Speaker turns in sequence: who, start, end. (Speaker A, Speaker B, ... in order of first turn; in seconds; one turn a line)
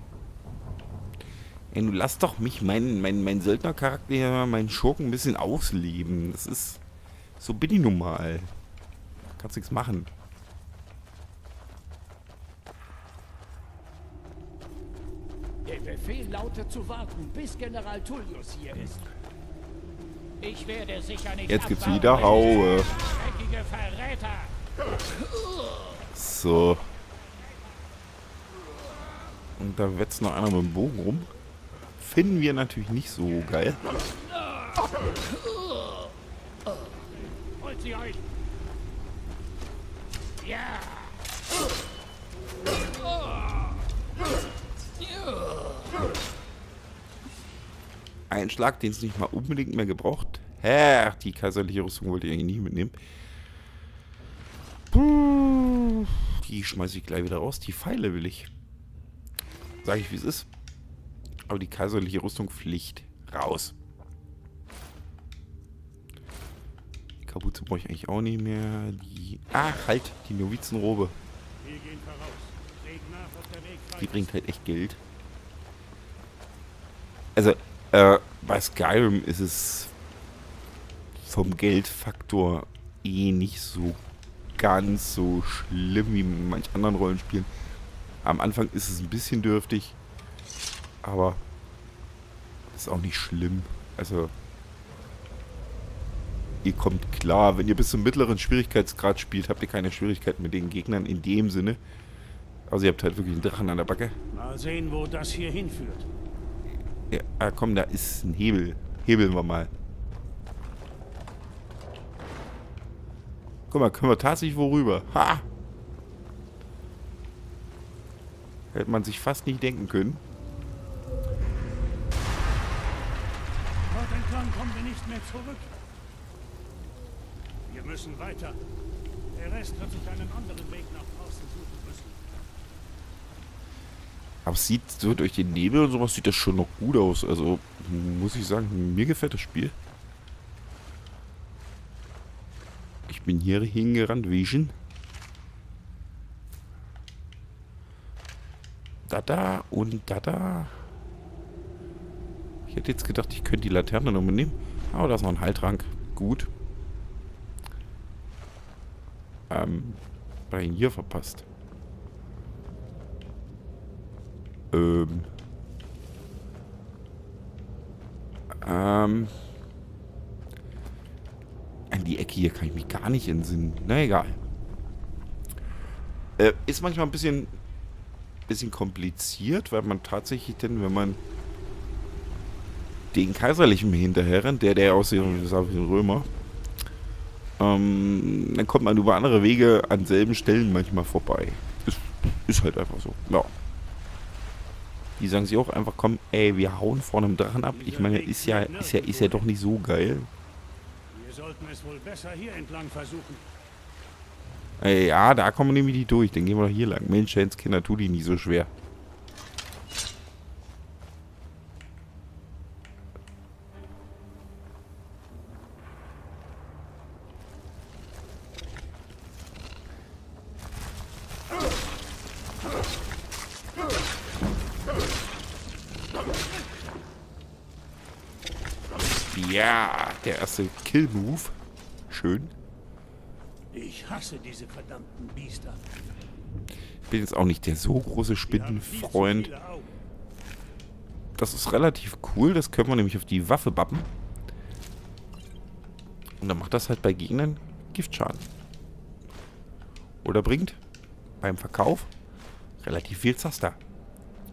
Speaker A: 1.7-6.8
Speaker A: 7.4-8.5
Speaker A: 9.4-10.1
Speaker B: 15.6-19.0
Speaker B: 20.4-24.5
Speaker A: 21.5-23.0
Speaker A: 26.1-26.9
Speaker A: 29.6-31.3
Speaker A: 32.0-33.8
Speaker B: 37.6-38.2
Speaker B: 40.4-41.1
Speaker A: 48.3-53.0
Speaker A: 54.9-58.5
Speaker A: 59.8-60.5
Speaker A: 61.5-63.7
Speaker A: 67.2-71.2
Speaker C: 71.6-74.2
Speaker A: 74.0-75.0
Speaker A: 77.3-79.9
Speaker A: 81.2-84.0
Speaker A: 84.5-87.5
Speaker A: 88.2-90.0
Speaker A: 91.0-91.4
Speaker A: 92.7-94.3
Speaker A: 96.6-101.8
Speaker A: 102.7-104.2
Speaker C: 104.3-106.1
Speaker A: 107.1-109.7
Speaker A: 113.7-115.5
Speaker A: 118.7-120.2
Speaker C: 123.9-125.8
Speaker C: 127.7-128.6
Speaker C: 129.3-132.2
Speaker A: 134.4-139.7
Speaker A: 143.1-144.8
Speaker A: 149.1-150.7
Speaker A: 152.7-156.5
Speaker A: 159.5-161.4
Speaker A: 164.7-165.3
Speaker A: 168.6-169.3
Speaker A: 171.9-174.4
Speaker A: 176.4-177.5
Speaker A: 178.5-181.2
Speaker A: 183.1-186.3
Speaker C: 185.2-185.5
Speaker A: 187.6-193.5
Speaker A: 195.2-200.3
Speaker C: 197.7-199.5
Speaker C: 201.1-203.5
Speaker A: 204.8-208.7
Speaker A: 229.0-231.6
Speaker A: 232.1-232.5
Speaker C: 233.7-235.8
Speaker A: 237.1-239.5
Speaker C: 238.5-239.9
Speaker A: 241.3-244.1
Speaker A: 246.4-248.4
Speaker A: 250.2-250.8
Speaker A: 251.4-252.1
Speaker A: 252.8-253.8